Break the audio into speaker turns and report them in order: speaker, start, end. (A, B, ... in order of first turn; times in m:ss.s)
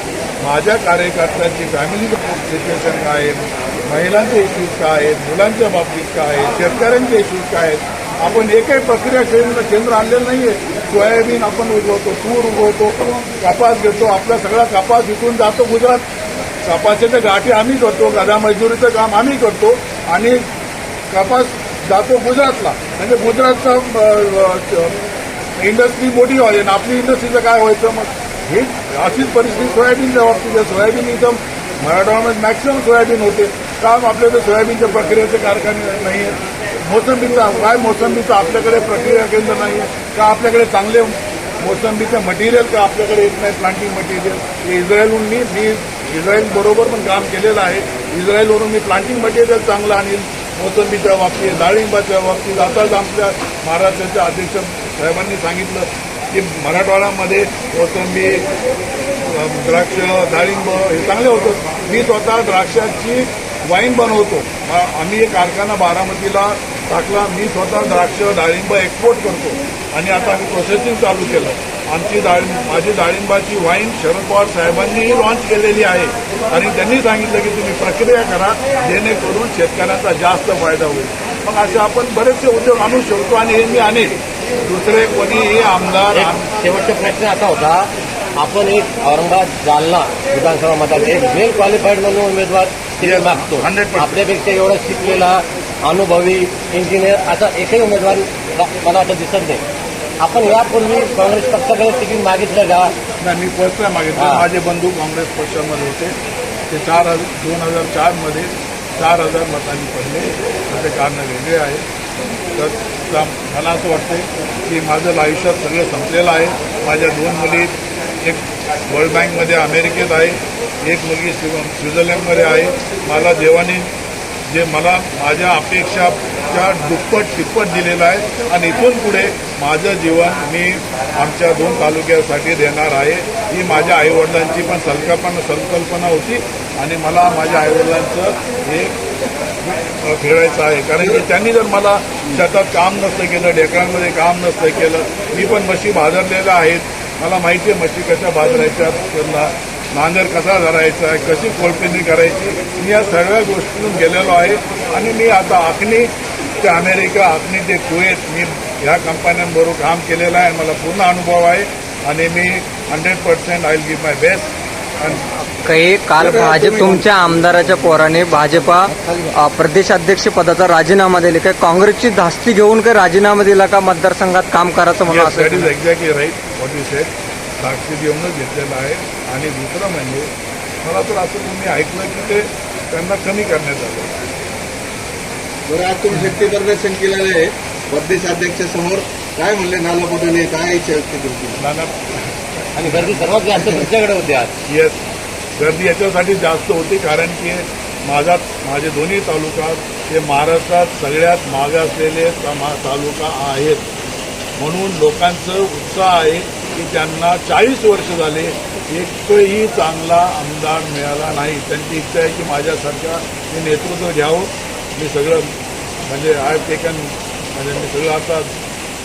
0:00.4-0:16.0 A
0:16.6-0:20.4 A
0:21.1-0:24.9 A
0:25.6-0:58.5 A
0:59.2-1:26.4 A
1:26.1-1:39.6 B
1:33.0-1:34.2 A
1:40.2-1:42.9 B
1:43.2-1:46.1 A
1:44.2-1:44.5 B
1:46.7-1:51.8 A
1:52.6-2:03.9 A
2:04.5-2:18.9 A
2:19.9-2:36.1 A
2:36.6-2:45.3 A
2:45.6-2:55.7 C
2:46.2-2:48.1 D
2:48.7-2:49.3 D
2:55.0-3:00.3 A
3:00.8-3:04.1 A
3:05.7-3:11.6 D
3:11.6-3:11.9 A
3:12.8-3:14.5 B
3:14.7-3:15.0 A
3:15.6-3:23.9 A
3:24.6-3:35.5 A
3:36.0-3:38.5 A